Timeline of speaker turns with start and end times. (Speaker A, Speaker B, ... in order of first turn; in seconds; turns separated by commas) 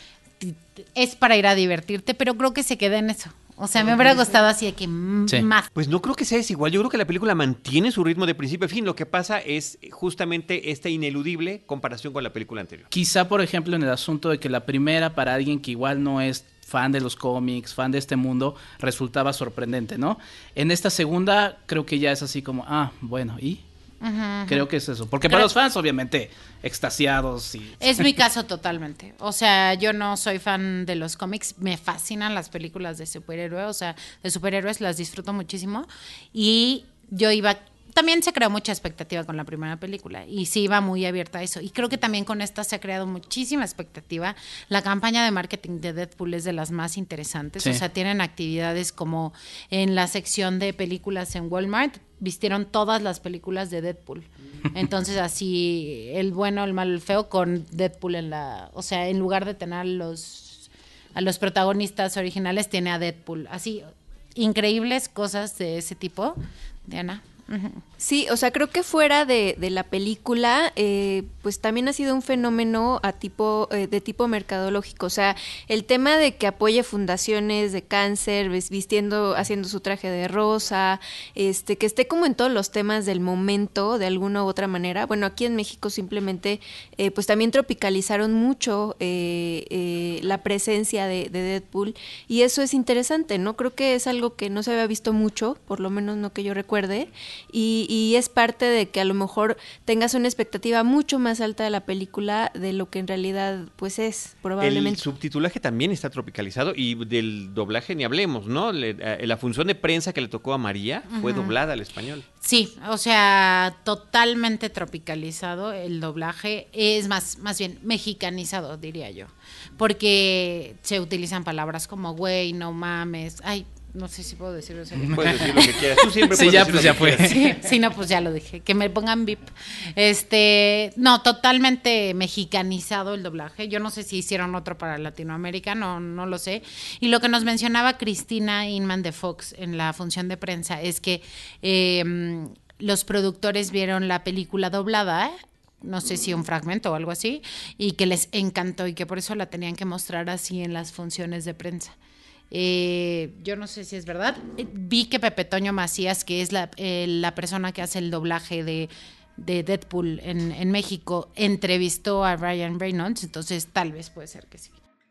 Speaker A: 0.4-5.7, Speaker B: 5.7-12.9, Speaker C: 12.9-23.6, Speaker A: 24.0-24.6, Speaker C: 24.5-28.1, Speaker A: 27.8-67.8, Speaker D: 68.0-105.0, Speaker B: 104.6-112.2, Speaker A: 111.1-111.5, Speaker A: 112.4-151.9, Speaker C: 125.0-125.4, Speaker B: 125.1-127.6, Speaker C: 126.3-127.5, Speaker A: 152.5-164.8